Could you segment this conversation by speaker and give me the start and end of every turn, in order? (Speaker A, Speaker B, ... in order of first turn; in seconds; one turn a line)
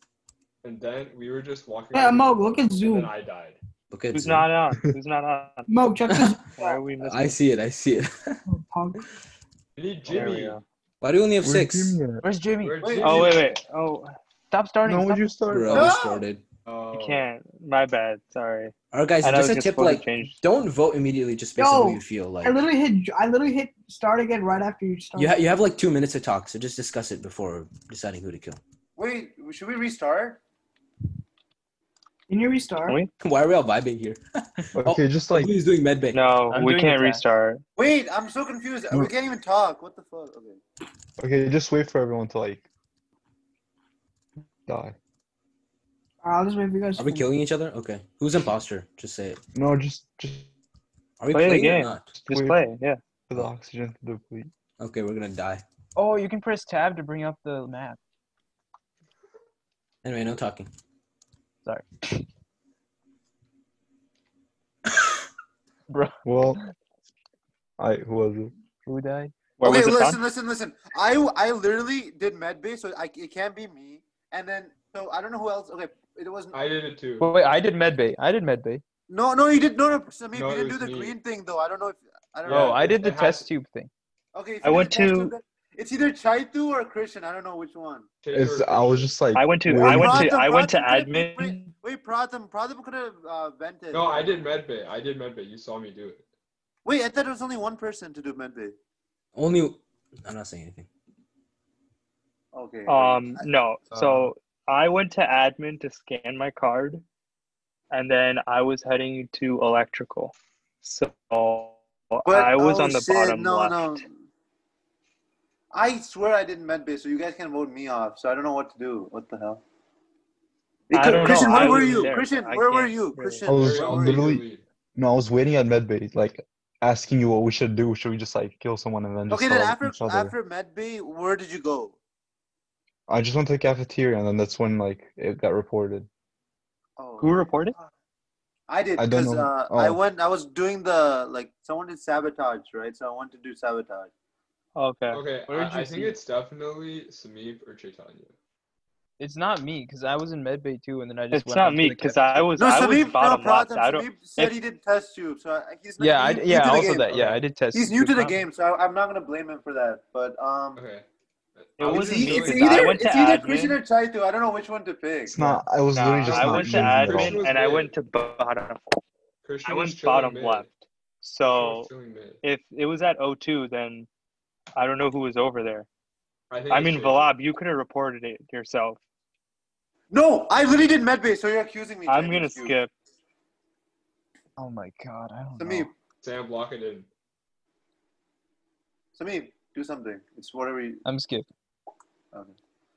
Speaker A: 0.6-3.6
Speaker B: 1.9-3.1
Speaker C: 3.9-4.5
Speaker D: 4.1-5.7
Speaker B: 5.7-6.8
Speaker C: 6.1-6.4
Speaker D: 6.5-7.4
Speaker C: 7.0-8.4
Speaker B: 8.4-9.0
Speaker A: 9.8-10.6
Speaker D: 10.1-10.6
Speaker C: 11.0-12.0
Speaker E: 11.4-12.2
Speaker F: 12.2-13.0
Speaker A: 12.6-13.5
Speaker G: 12.8-13.4
Speaker D: 13.0-14.2
Speaker F: 14.5-15.5
Speaker E: 14.8-15.9
Speaker C: 15.5-16.4
Speaker G: 15.7-16.3
Speaker A: 16.6-17.2
Speaker D: 16.9-20.4
Speaker C: 18.9-22.6
Speaker B: 21.6-25.4
Speaker C: 25.1-28.6
Speaker G: 29.0-30.4
Speaker B: 32.3-33.0
Speaker C: 33.1-36.2
Speaker E: 34.7-35.5
Speaker D: 36.1-37.6
Speaker F: 36.5-37.2
Speaker G: 37.8-40.6
Speaker E: 41.2-42.6
Speaker E: 44.7-45.0
Speaker B: 46.2-47.3
Speaker C: 47.0-49.4
Speaker E: 49.5-50.5
Speaker C: 51.2-52.1
Speaker D: 51.3-53.0
Speaker E: 52.1-52.6
Speaker E: 53.3-54.5
Speaker C: 54.8-55.6
Speaker F: 55.9-58.0
Speaker C: 60.0-60.7
Speaker F: 61.6-62.0
Speaker F: 65.9-66.7
Speaker E: 66.2-66.6
Speaker E: 67.8-68.5
Speaker F: 68.8-69.3
Speaker D: 69.6-70.2
Speaker G: 69.6-76.6
Speaker A: 76.5-77.3
Speaker F: 77.2-78.8
Speaker G: 79.1-82.8
Speaker A: 80.3-81.2
Speaker A: 82.4-83.5
Speaker F: 82.5-83.9
Speaker G: 84.3-88.1
Speaker D: 84.6-85.3
Speaker A: 88.2-89.1
Speaker E: 88.3-90.3
Speaker D: 89.3-91.7
Speaker G: 89.8-94.5
Speaker A: 93.9-96.2
Speaker G: 96.8-98.7
Speaker C: 99.3-100.9
Speaker G: 102.5-103.4
Speaker D: 102.9-107.0
Speaker D: 107.9-114.0
Speaker G: 112.2-114.0
Speaker G: 115.7-119.6
Speaker G: 120.9-124.3
Speaker D: 120.9-123.5
Speaker A: 121.4-122.0
Speaker E: 123.5-124.4
Speaker A: 123.5-124.6
Speaker E: 125.0-130.3
Speaker G: 129.3-132.0
Speaker E: 133.1-136.1
Speaker G: 137.0-137.9
Speaker D: 137.2-137.7
Speaker G: 138.7-144.1
Speaker E: 139.0-140.0
Speaker D: 144.8-145.2
Speaker A: 145.1-148.3
Speaker F: 145.5-146.2
Speaker F: 149.2-152.5
Speaker D: 151.3-154.6
Speaker G: 152.6-160.8
Speaker F: 156.0-158.4
Speaker A: 156.6-157.4
Speaker A: 160.8-161.0
Speaker A: 161.6-162.9
Speaker D: 161.8-163.8
Speaker G: 161.8-165.4
Speaker E: 165.3-167.4
Speaker D: 165.9-169.0
Speaker A: 166.2-167.9
Speaker A: 169.4-170.7
Speaker D: 169.6-171.9
Speaker A: 171.4-172.4
Speaker D: 172.4-174.1
Speaker D: 174.8-175.9
Speaker A: 176.5-177.3
Speaker D: 176.7-179.0
Speaker G: 180.1-182.8
Speaker D: 182.1-182.9
Speaker F: 184.6-185.9
Speaker G: 185.6-185.9
Speaker A: 186.2-187.1
Speaker G: 189.1-191.0
Speaker F: 191.0-191.5